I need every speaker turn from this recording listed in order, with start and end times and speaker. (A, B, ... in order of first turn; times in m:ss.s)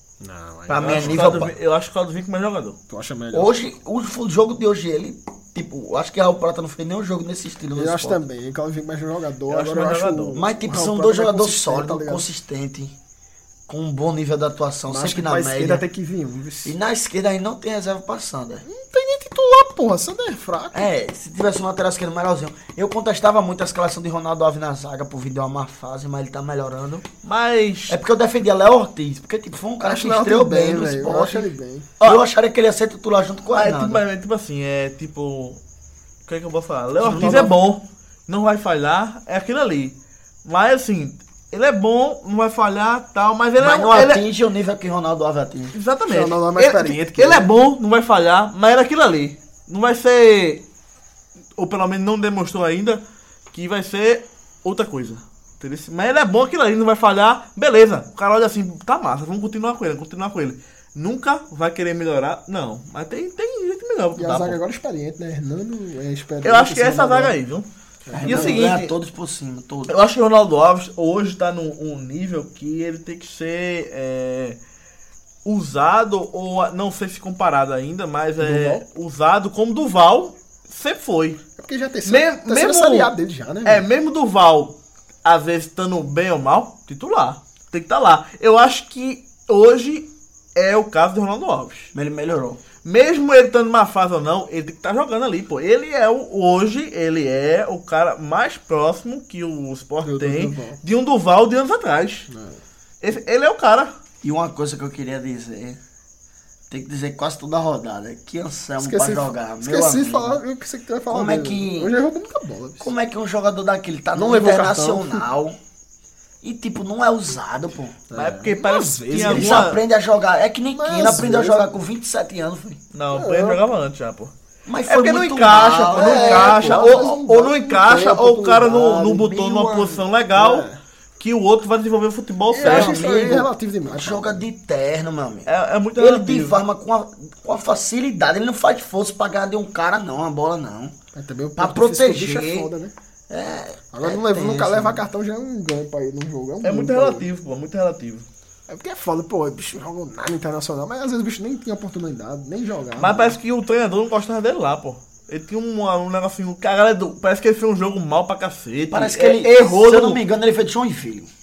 0:00.2-0:01.4 A
0:00.7-0:01.6 B
0:00.8-0:02.8 C
0:02.9-0:03.6 A
0:03.3-0:08.2 B
0:07.8-0:12.3 A
0:09.5-0:10.4 C
0:10.4-0:12.9 B
0:13.7-0:15.8 B
0:14.9-0:16.8 A
0:16.6-0:18.6 B
0:18.6-0:20.9 A
0:20.7-0:27.1 B
0:27.2-0:28.0 C
0:27.9-0:31.5 B
0:29.8-0:31.9 A
0:32.0-0:34.0 B
0:33.6-0:35.6 C
0:36.3-0:44.2 C
0:37.0-0:37.5 A
0:37.0-0:37.4 B
0:43.6-0:45.8 B
0:45.7-0:50.6 C
0:46.1-0:47.5 A
0:51.6-1:04.6 C
1:04.2-1:07.4 A
1:06.4-1:07.7 C
1:08.1-1:08.6 A
1:08.2-1:10.0 B
1:08.2-1:08.9 C
1:09.9-1:14.6 C
1:15.4-1:21.4 C
1:18.4-1:18.8 A
1:21.6-1:23.8 A
1:22.1-1:23.1 C
1:23.6-1:31.9 C
1:31.9-1:32.6 B
1:32.8-1:42.3 C
1:40.0-1:40.8 A
1:42.3-1:42.6 A
1:43.0-1:43.9 C
1:44.2-1:45.8 B
1:46.7-1:50.4 B
1:48.8-1:52.9 A
1:51.1-1:51.9 B
1:52.8-1:55.6 B
1:54.1-1:55.2 A
1:56.4-1:58.0 B
1:58.1-1:59.7 A
1:58.1-1:59.8 C
1:59.1-2:02.8 B
2:00.7-2:01.7 A
2:02.9-2:04.3 C
2:03.1-2:03.6 A
2:04.7-2:07.2 B
2:04.9-2:10.7 C
2:05.9-2:09.1 A
2:08.7-2:10.0 B
2:10.4-2:10.8 A
2:11.2-2:13.1 C
2:12.5-2:14.4 A
2:12.6-2:21.0 B
2:15.4-2:16.6 C
2:21.1-2:22.9 A
2:21.6-2:22.7 B
2:23.3-2:25.0 B
2:23.9-2:27.3 A
2:26.6-2:28.3 C
2:28.7-2:33.4 A
2:33.0-2:40.2 C
2:38.9-2:41.3 B